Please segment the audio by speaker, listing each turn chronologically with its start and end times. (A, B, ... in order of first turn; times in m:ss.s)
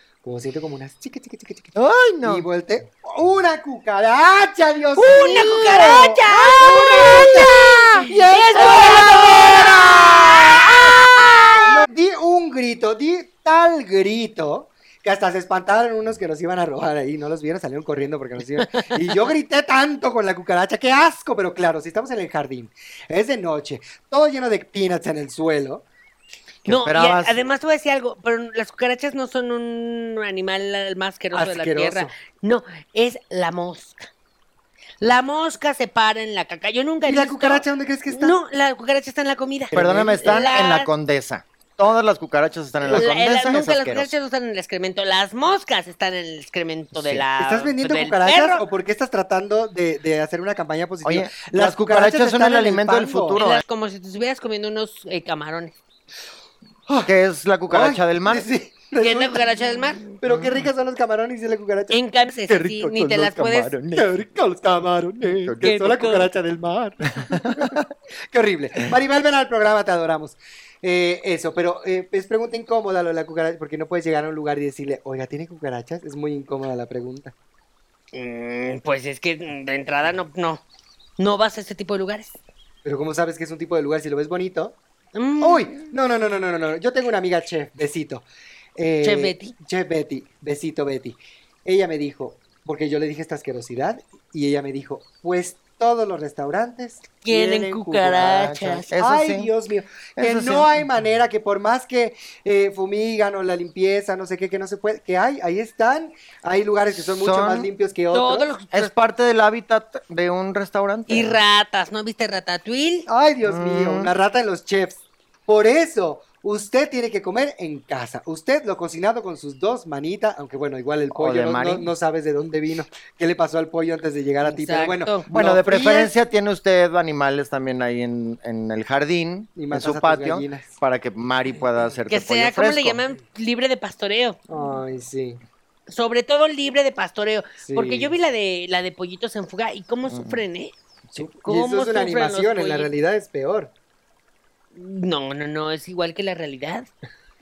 0:00.2-0:11.0 A
0:01.8-0:02.5 B
0:05.0-0:11.8 C
0:06.7-0:07.6 B
0:11.7-0:25.8 A
0:26.7-0:27.4 B
0:26.7-0:34.0 C
0:31.3-0:32.1 A
0:35.0-0:40.9 C
0:37.1-0:38.4 A
0:39.7-0:40.5 A
0:39.7-0:44.1 B
0:42.9-0:48.6 C
0:46.9-0:47.2 B
0:47.4-0:53.4 A
0:51.0-0:53.6 B
0:53.4-0:55.8 C
0:56.9-0:57.1 A
0:57.0-0:58.5 B
0:57.7-0:59.5 A
0:59.0-1:00.1 C
1:00.1-1:03.2 A
1:00.3-1:00.7 B
1:01.9-1:03.7 C
1:02.8-1:04.1 B
1:03.9-1:07.8 A
1:05.4-1:05.7 B
1:05.6-1:06.3 C
1:07.2-1:07.9 B
1:08.3-1:17.3 A
1:18.1-1:20.6 C
1:21.2-1:22.4 C
1:22.8-1:24.8 A
1:25.2-1:25.8 C
1:25.4-1:28.2 A
1:28.8-1:48.5 A
1:29.0-1:29.5 C
1:37.2-1:38.9 C
1:38.2-1:39.5 B
1:40.2-1:40.8 B
1:46.9-1:47.7 B
1:48.1-1:48.9 C
1:48.7-1:51.4 B
1:51.1-1:53.1 C
1:53.1-2:06.1 A
1:53.4-1:54.1 B
2:01.1-2:01.9 B
2:04.4-2:05.2 C
2:05.3-2:13.0 B
2:09.6-2:10.8 A
2:12.1-2:14.4 C
2:14.5-2:15.4 A
2:15.9-2:20.7 C
2:17.6-2:18.1 A
2:20.1-2:20.4 B
2:21.1-2:23.7 A
2:21.4-2:22.9 C
2:24.8-2:26.9 C